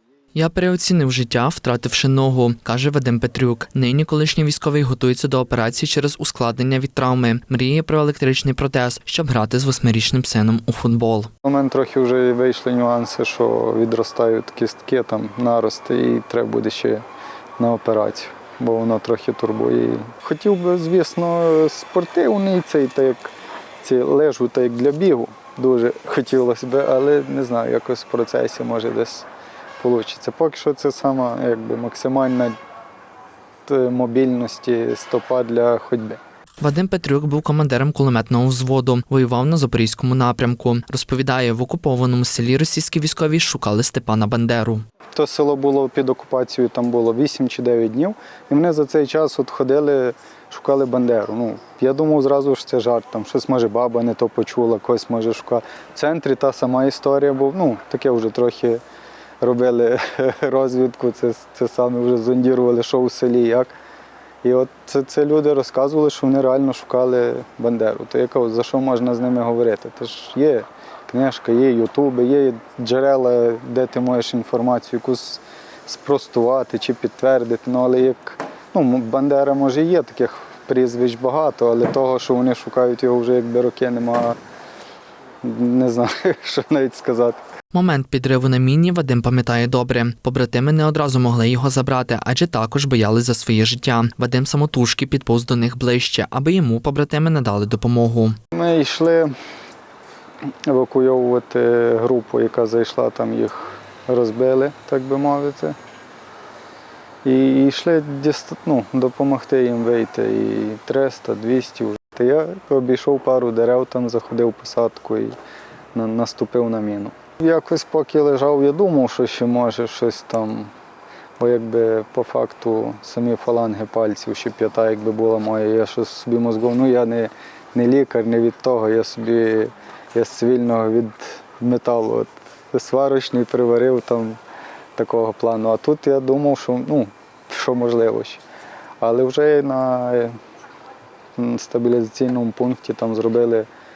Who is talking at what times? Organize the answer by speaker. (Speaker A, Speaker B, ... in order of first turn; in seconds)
Speaker A: 0.3-11.3, 36.6-44.8, 87.7-98.3
Speaker B: 11.4-17.0, 17.6-23.3, 23.8-29.3, 29.8-32.5, 33.6-36.2, 45.1-58.8, 59.4-63.7, 64.4-84.4, 85.4-87.4, 98.5-99.3, 100.7-105.7, 107.2-115.3, 115.9-120.7, 121.4-134.4, 135.0-138.4, 139.0-140.3, 141.4-143.7